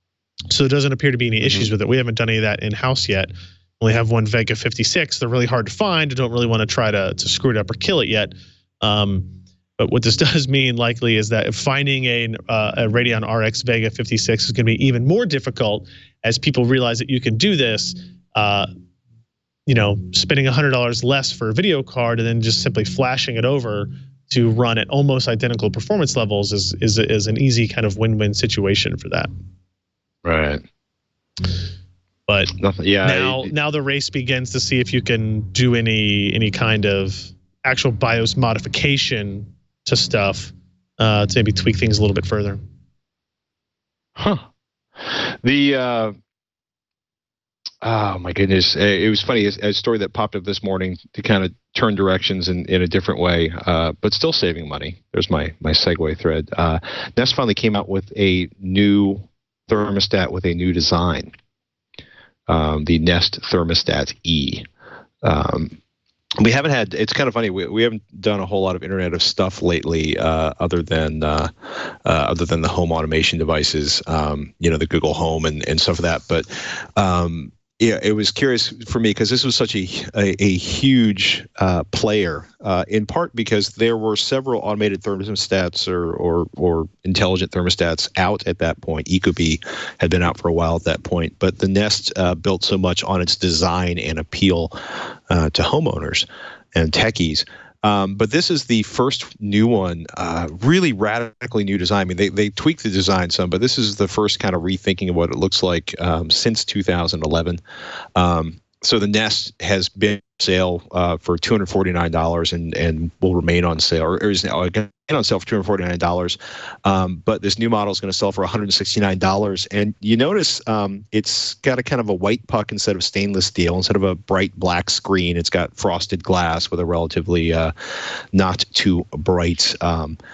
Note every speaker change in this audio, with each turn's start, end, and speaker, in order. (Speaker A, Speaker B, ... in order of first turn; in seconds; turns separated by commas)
Speaker A: 0.5-18.7, Speaker B: 1.4-1.7, Speaker A: 19.7-29.3, Speaker B: 30.2-30.6, Speaker A: 32.3-32.5, Speaker B: 32.5-33.5, Speaker A: 33.0-42.6, Speaker B: 44.2-44.5, Speaker B: 45.0-46.1, Speaker B: 47.8-61.3, Speaker B: 62.5-64.7, Speaker B: 65.2-65.8, Speaker B: 66.4-94.8, Speaker B: 95.3-107.6, Speaker B: 108.2-127.7, Speaker B: 128.3-130.2